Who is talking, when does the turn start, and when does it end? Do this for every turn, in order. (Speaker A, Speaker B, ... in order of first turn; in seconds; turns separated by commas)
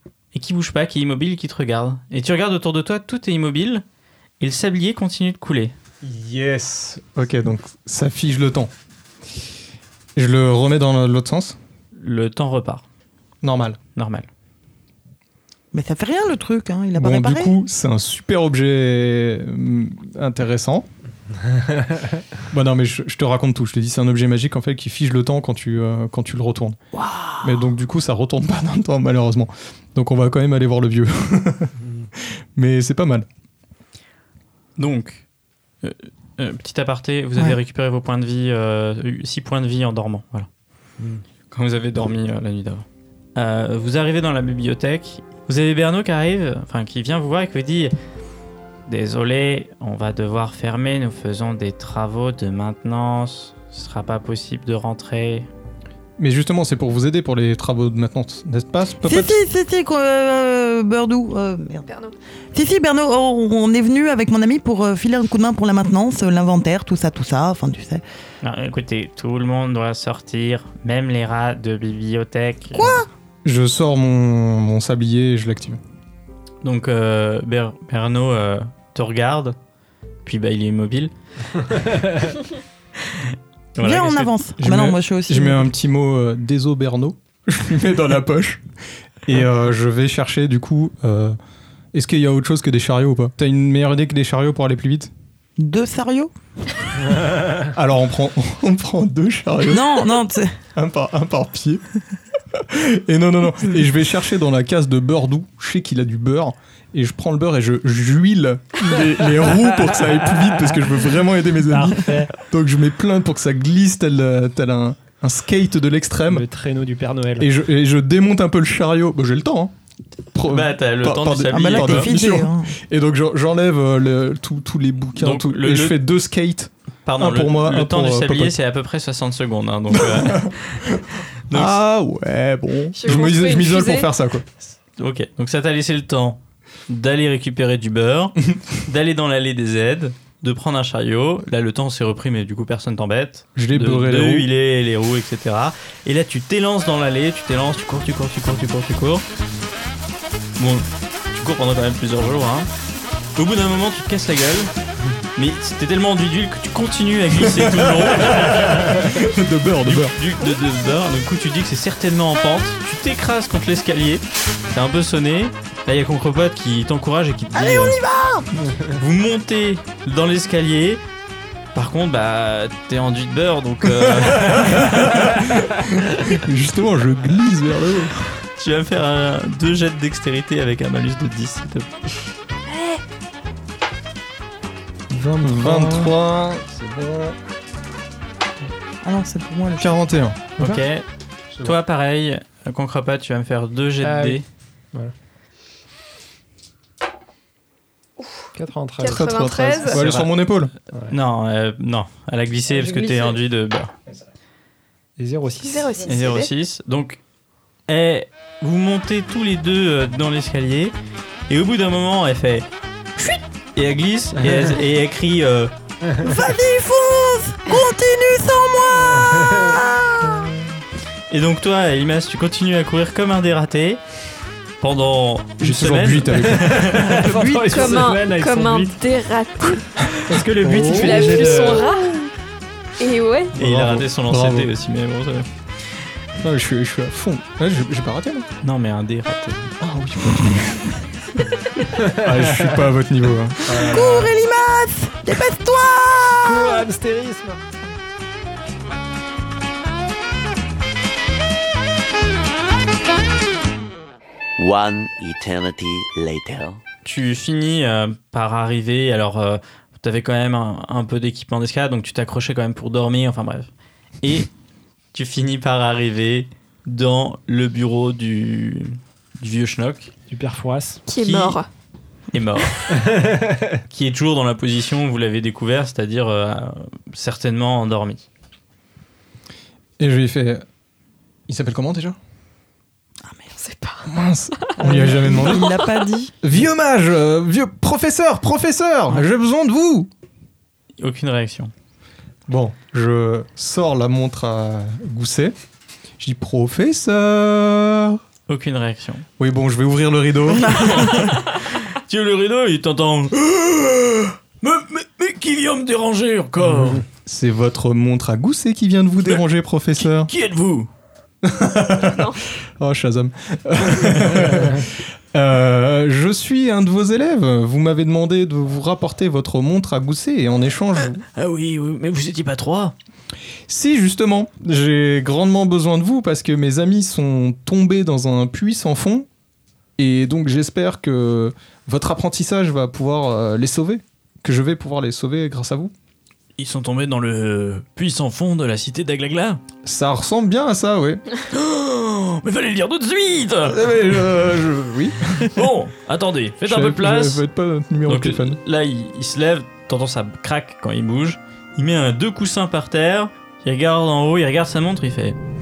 Speaker A: 0.3-3.8, Speaker A: 4.4-5.8, Speaker B: 6.0-8.7, Speaker B: 10.2-11.6, Speaker A: 11.9-12.8, Speaker B: 13.4-13.8, Speaker A: 13.9-14.3, Speaker C: 15.7-17.5, Speaker B: 17.0-20.9, Speaker B: 22.5-26.8, Speaker C: 27.0-27.4, Speaker B: 27.4-31.7, Speaker B: 32.6-33.3, Speaker A: 34.8-35.2, Speaker A: 35.8-40.5, Speaker A: 41.5-47.9, Speaker A: 48.9-55.5, Speaker B: 56.2-59.4, Speaker C: 59.0-61.9, Speaker D: 61.9-62.1, Speaker C: 62.5-68.0, Speaker A: 68.4-72.9, Speaker C: 72.7-73.1, Speaker B: 73.4-75.8, Speaker A: 76.6-79.6, Speaker A: 80.2-81.1, Speaker A: 83.1-84.3, Speaker C: 83.8-85.7, Speaker B: 84.6-88.6, Speaker B: 89.3-91.4, Speaker B: 91.9-95.1, Speaker C: 95.6-96.3, Speaker B: 97.7-100.1, Speaker C: 99.7-100.6, Speaker B: 100.8-101.8, Speaker B: 102.5-116.5, Speaker E: 109.4-109.6, Speaker E: 111.7-112.3, Speaker E: 116.3-117.5, Speaker B: 117.4-119.7, Speaker B: 120.3-128.6, Speaker A: 120.5-122.1, Speaker C: 121.5-122.8, Speaker A: 125.2-126.0, Speaker A: 127.0-130.9, Speaker B: 129.9-134.4, Speaker A: 131.5-131.8, Speaker D: 133.0-134.1, Speaker A: 135.0-149.3, Speaker B: 143.6-144.5, Speaker A: 150.6-152.7, Speaker A: 153.4-154.7, Speaker A: 155.4-159.1, Speaker B: 157.5-160.2, Speaker A: 159.8-168.0, Speaker C: 167.5-168.5, Speaker A: 168.9-171.0, Speaker A: 171.8-175.4, Speaker B: 174.0-178.2, Speaker A: 178.5-181.9, Speaker D: 182.7-183.0, Speaker E: 185.1-186.1, Speaker B: 185.4-187.4, Speaker C: 189.0-190.0, Speaker B: 189.8-190.5, Speaker A: 190.6-191.1, Speaker A: 191.6-194.4, Speaker E: 194.0-194.4, Speaker D: 198.2-198.5, Speaker E: 198.6-199.8, Speaker D: 199.0-200.0, Speaker B: 199.0-200.7, Speaker A: 199.9-200.3, Speaker A: 201.1-203.9, Speaker E: 205.2-206.1, Speaker D: 205.6-206.5, Speaker A: 206.1-207.2, Speaker A: 207.9-210.9, Speaker A: 211.5-212.7, Speaker A: 213.2-215.7, Speaker C: 216.2-220.5, Speaker E: 219.1-219.8, Speaker A: 221.3-224.0, Speaker A: 224.8-227.2, Speaker B: 225.6-227.1, Speaker E: 226.5-229.0, Speaker C: 227.1-228.0, Speaker D: 227.7-230.4, Speaker E: 230.1-232.1, Speaker B: 230.6-231.5, Speaker D: 230.9-232.3, Speaker D: 233.0-233.6, Speaker B: 233.5-234.7, Speaker A: 233.6-235.5, Speaker B: 236.4-238.5, Speaker A: 238.6-239.8, Speaker B: 239.8-240.9, Speaker B: 242.1-244.3, Speaker E: 242.2-242.7, Speaker E: 243.7-244.2, Speaker C: 243.8-246.8, Speaker E: 246.4-247.6, Speaker F: 254.6-256.8, Speaker A: 257.0-263.7, Speaker A: 264.2-264.5, Speaker A: 265.1-270.1, Speaker E: 270.3-271.0, Speaker D: 271.1-271.7, Speaker A: 271.1-271.6, Speaker A: 272.3-273.0, Speaker E: 273.0-273.7, Speaker A: 273.9-278.2, Speaker B: 280.0-280.6, Speaker B: 281.5-282.2, Speaker D: 283.6-284.1, Speaker B: 284.1-285.8, Speaker C: 284.8-286.3, Speaker D: 285.4-286.1, Speaker B: 286.4-290.1, Speaker A: 291.0-291.7, Speaker B: 292.5-295.6, Speaker B: 296.2-298.2, Speaker A: 298.5-299.3, Speaker B: 299.4-301.3, Speaker C: 300.6-301.2, Speaker A: 300.8-307.1, Speaker B: 307.2-310.3, Speaker A: 310.0-310.9, Speaker B: 311.4-321.2, Speaker D: 312.1-312.4, Speaker A: 321.4-322.9, Speaker B: 323.7-329.3, Speaker B: 330.0-335.9, Speaker A: 336.6-339.6, Speaker B: 339.8-341.2, Speaker A: 341.5-343.9, Speaker B: 343.7-345.6, Speaker A: 345.3-347.4, Speaker B: 346.6-348.6, Speaker A: 348.1-355.4